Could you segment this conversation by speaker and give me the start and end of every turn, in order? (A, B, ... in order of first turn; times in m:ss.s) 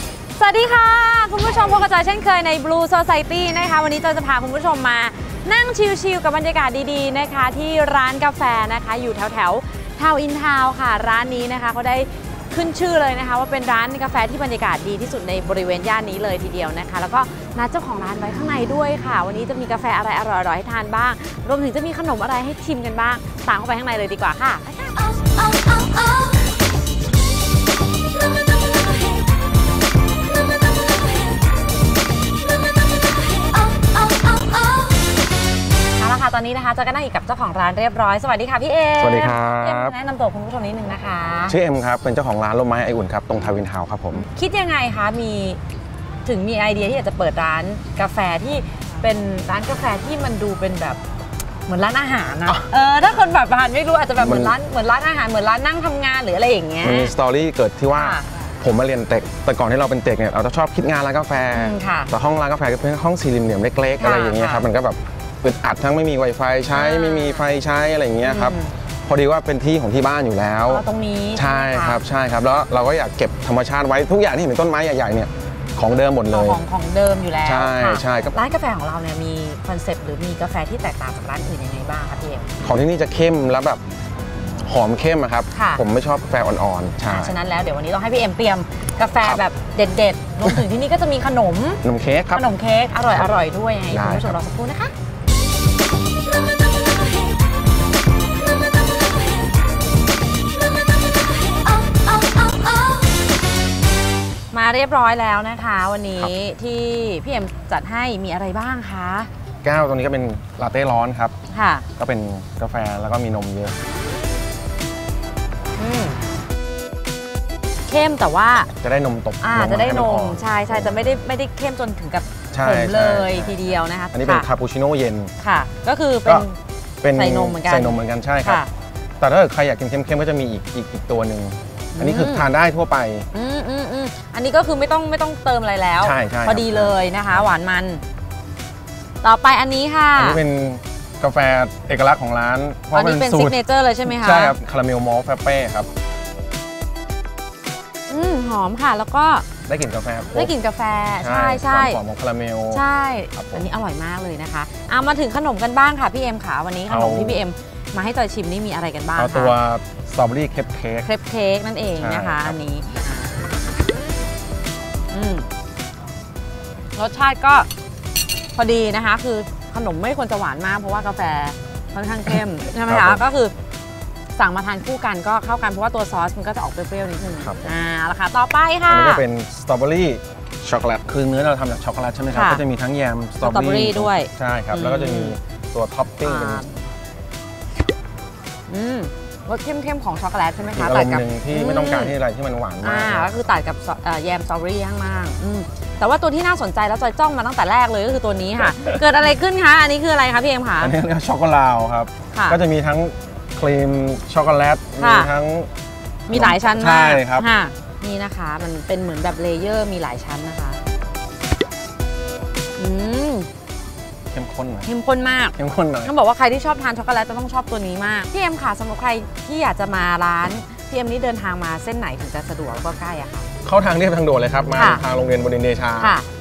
0:00.3-0:26.2 A
0:33.8-0:34.5 A
0:36.0-0:41.6 A
0:39.0-0:39.9 B
0:41.5-0:44.2 B
0:44.2-0:45.6 A
0:46.2-0:51.0 A
0:51.7-0:57.1 A
0:54.2-0:54.6 B
0:56.8-1:10.8 B
0:57.9-0:58.3 A
1:01.5-1:02.1 A
1:04.0-1:04.7 A
1:06.7-1:07.5 A
1:08.2-1:08.7 A
1:10.7-1:12.0 A
1:11.3-1:16.6 B
1:16.3-1:22.5 A
1:17.4-1:18.3 B
1:22.6-1:23.8 B
1:24.6-1:27.4 B
1:25.5-1:25.8 A
1:27.0-1:31.8 A
1:31.8-1:32.4 B
1:32.3-1:34.9 A
1:33.9-1:34.4 B
1:41.8-1:42.7 A
1:44.5-1:49.3 A
1:49.6-1:51.3 B
1:51.5-1:51.8 A
1:52.0-1:53.7 B
1:55.8-1:56.2 A
1:57.9-1:58.7 A
1:58.8-2:01.1 B
1:59.4-2:04.5 A
2:02.5-2:05.3 B
2:05.4-2:06.6 A
2:07.0-2:08.6 B
2:07.1-2:08.7 A
2:09.2-2:13.3 B
2:11.9-2:12.5 A
2:13.3-2:18.0 A
2:16.0-2:17.5 B
2:19.2-2:20.4 A
2:20.2-2:25.9 B
2:22.9-2:24.6 A
2:28.1-2:29.5 A
2:29.7-2:30.5 B
2:30.3-2:32.0 A
2:31.1-2:32.8 B
2:32.7-2:39.5 A
2:33.3-2:33.7 B
2:36.9-2:37.4 B
2:39.2-2:41.1 B
2:41.0-2:43.3 A
2:41.9-2:42.6 B
2:45.1-2:45.5 A
2:47.0-2:47.7 A
2:48.5-2:53.5 A
2:52.8-2:53.2 B
2:54.3-2:59.2 A
2:57.4-2:57.7 B
2:58.9-3:06.6 B
3:02.3-3:02.6 A
3:03.4-3:05.4 A
3:06.2-3:06.8 A
3:08.7-3:12.1 A
3:10.7-3:13.3 B
3:12.8-3:20.9 A
3:20.8-3:25.7 B
3:22.3-3:22.6 A
3:25.0-3:25.3 A
3:26.3-3:30.8 A
3:26.3-3:27.5 B
3:32.8-3:33.5 A
3:34.3-3:34.9 B
3:34.8-3:43.5 A
3:35.6-3:36.1 B
3:43.6-3:46.2 B
3:44.7-3:45.0 A
3:46.0-3:46.2 A